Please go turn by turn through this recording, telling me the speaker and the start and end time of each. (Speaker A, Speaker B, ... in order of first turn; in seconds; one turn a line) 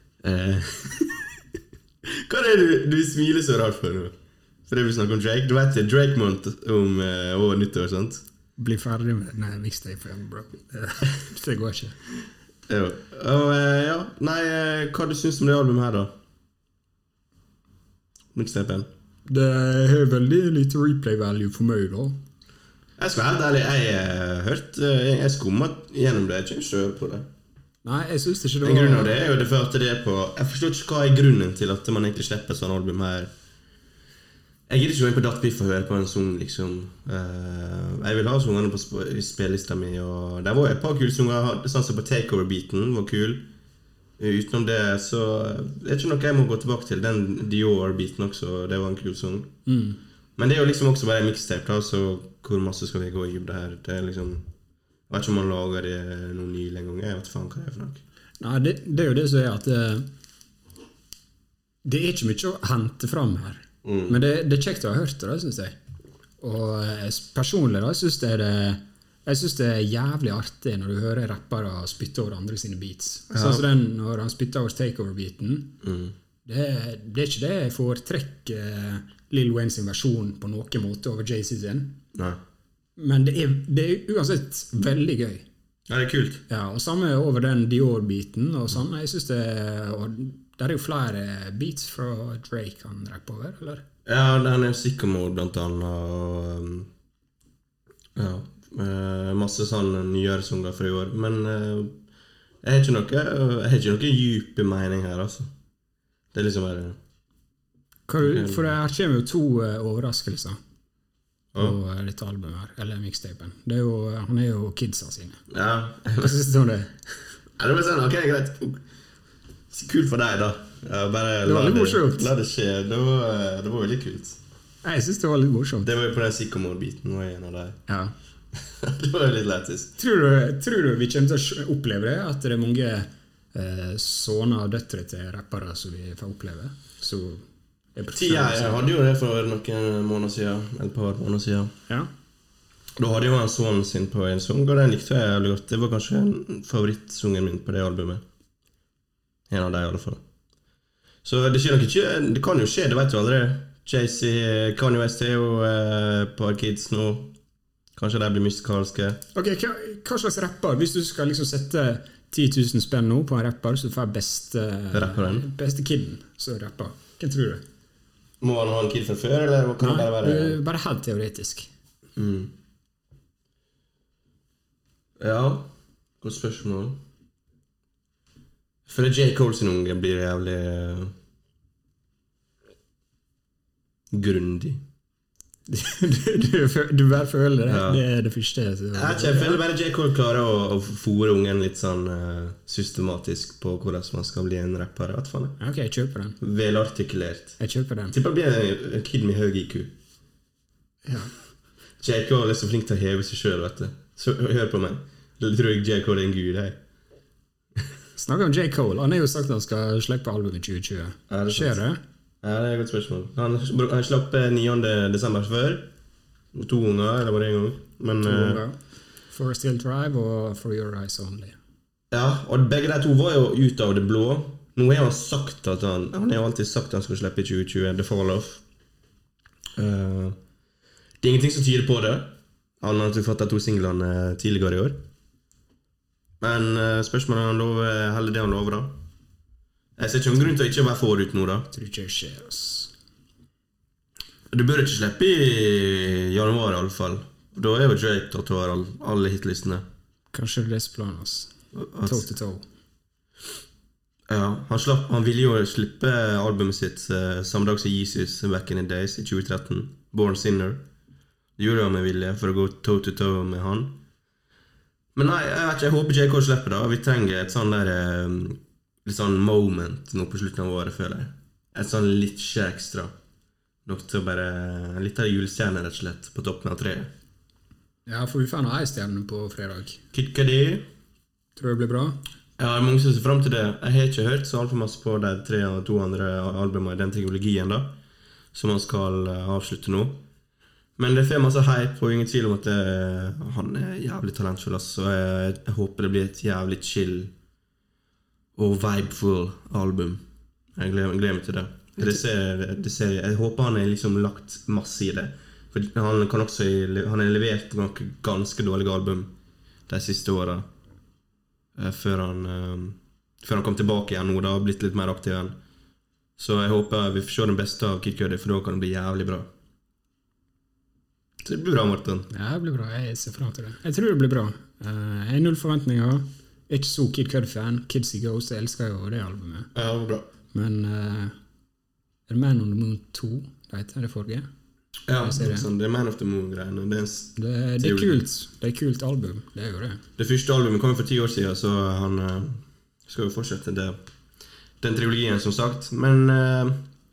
Speaker A: 0.2-1.4
Speaker A: 2.0-4.1
Speaker A: 4.7-8.2
Speaker B: 8.6-11.9
Speaker A: 12.7-16.1
Speaker A: 18.3-18.9
Speaker B: 19.3-22.2
Speaker A: 23.0-27.3
Speaker B: 27.8-29.1
Speaker A: 28.6-33.3
Speaker A: 34.7-43.5
Speaker A: 44.2-49.5
Speaker B: 49.7-50.0
Speaker A: 50.4-54.5
Speaker A: 55.1-58.0
Speaker B: 58.4-60.1
Speaker B: 61.8-65.8
Speaker A: 63.8-64.2
Speaker B: 66.4-75.8
Speaker A: 73.3-73.7
Speaker A: 75.8-76.1
Speaker B: 76.4-82.0
Speaker A: 82.1-82.4
Speaker B: 83.0-85.4
Speaker A: 85.9-86.4
Speaker B: 86.5-93.8
Speaker A: 94.0-96.9
Speaker A: 98.1-102.0
Speaker A: 102.6-105.5
Speaker A: 106.3-107.0
Speaker B: 108.1-110.6
Speaker A: 108.2-108.7
Speaker B: 111.6-115.4
Speaker A: 115.5-116.4
Speaker B: 116.2-116.9
Speaker A: 117.6-118.8
Speaker A: 119.7-124.4
Speaker B: 121.4-122.3
Speaker B: 124.8-125.9
Speaker A: 125.8-127.8
Speaker B: 127.9-128.1
Speaker A: 128.7-130.0
Speaker B: 130.0-137.4
Speaker B: 137.9-138.8
Speaker A: 138.1-141.7
Speaker A: 143.0-148.2
Speaker A: 149.5-150.2
Speaker A: 151.2-157.3
Speaker A: 157.9-159.2
Speaker B: 159.3-167.6
Speaker A: 164.9-165.5
Speaker A: 168.4-170.6
Speaker B: 169.8-171.7
Speaker A: 172.2-172.5
Speaker A: 175.2-175.7
Speaker A: 176.2-177.0
Speaker A: 178.8-181.1
Speaker A: 184.1-184.8
Speaker B: 185.7-189.6
Speaker A: 187.7-188.0
Speaker A: 188.9-195.6
Speaker B: 195.6-196.4
Speaker A: 196.4-197.6
Speaker B: 197.6-198.2
Speaker A: 198.1-199.9
Speaker B: 201.1-201.3
Speaker A: 202.0-206.8
Speaker B: 208.2-212.0
Speaker A: 211.3-211.8
Speaker A: 212.4-215.9
Speaker A: 216.5-218.6
Speaker B: 218.2-218.8
Speaker B: 219.3-221.6
Speaker A: 222.1-228.6
Speaker A: 229.7-230.4
Speaker A: 231.2-235.0
Speaker A: 236.4-239.0
Speaker A: 240.0-241.7
Speaker B: 241.7-242.9
Speaker A: 244.5-249.8
Speaker B: 250.3-251.5
Speaker A: 251.7-252.3
Speaker B: 252.0-252.6
Speaker A: 254.3-260.8
Speaker A: 261.6-264.0
Speaker A: 265.1-273.1
Speaker A: 273.9-277.1
Speaker B: 278.1-280.0
Speaker A: 280.1-280.9
Speaker B: 281.6-282.2
Speaker A: 282.6-288.0
Speaker A: 288.5-290.2
Speaker A: 291.0-297.3
Speaker A: 298.6-300.2
Speaker A: 300.8-309.3
Speaker A: 309.9-310.7
Speaker A: 311.7-315.6
Speaker A: 316.4-319.5
Speaker A: 321.4-322.3
Speaker B: 322.3-329.7
Speaker A: 329.7-330.3
Speaker B: 330.5-331.3
Speaker B: 332.3-334.5
Speaker A: 335.1-338.2
Speaker B: 335.2-335.7
Speaker B: 337.4-340.0
Speaker A: 340.2-344.0
Speaker A: 344.8-346.9